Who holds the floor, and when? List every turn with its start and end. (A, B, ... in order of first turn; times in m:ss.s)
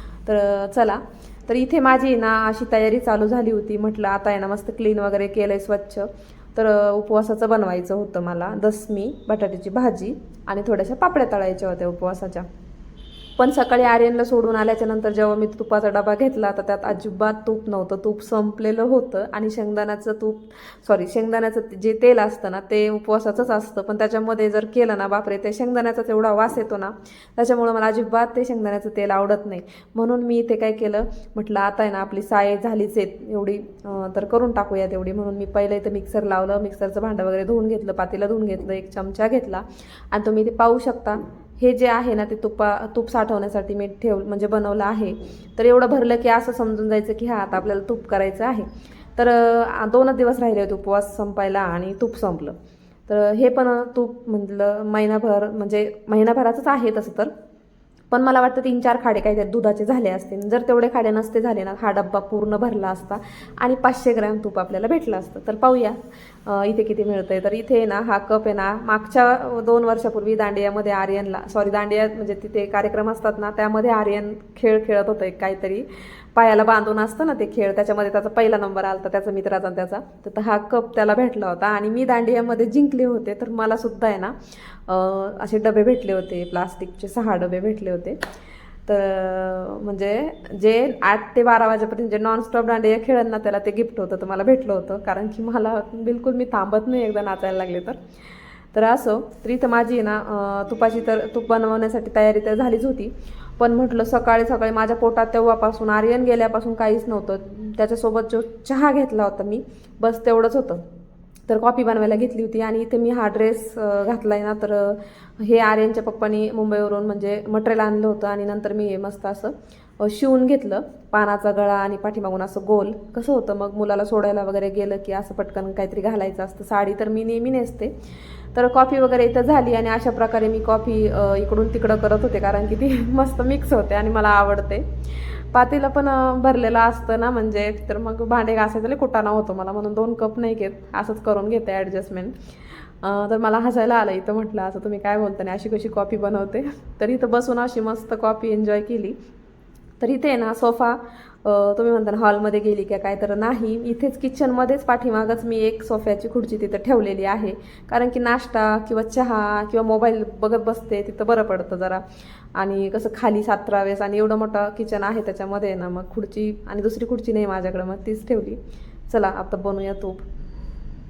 0:00.2-0:12.4 A
0:13.4-0:52.5 A
0:53.1-0:57.3 A
0:58.1-1:28.2 A
1:28.9-1:38.0 A
1:38.7-1:50.8 A
1:51.5-2:07.9 A
2:08.5-2:22.4 A
2:23.0-2:29.2 A
2:30.0-2:42.0 A
2:42.5-2:50.2 A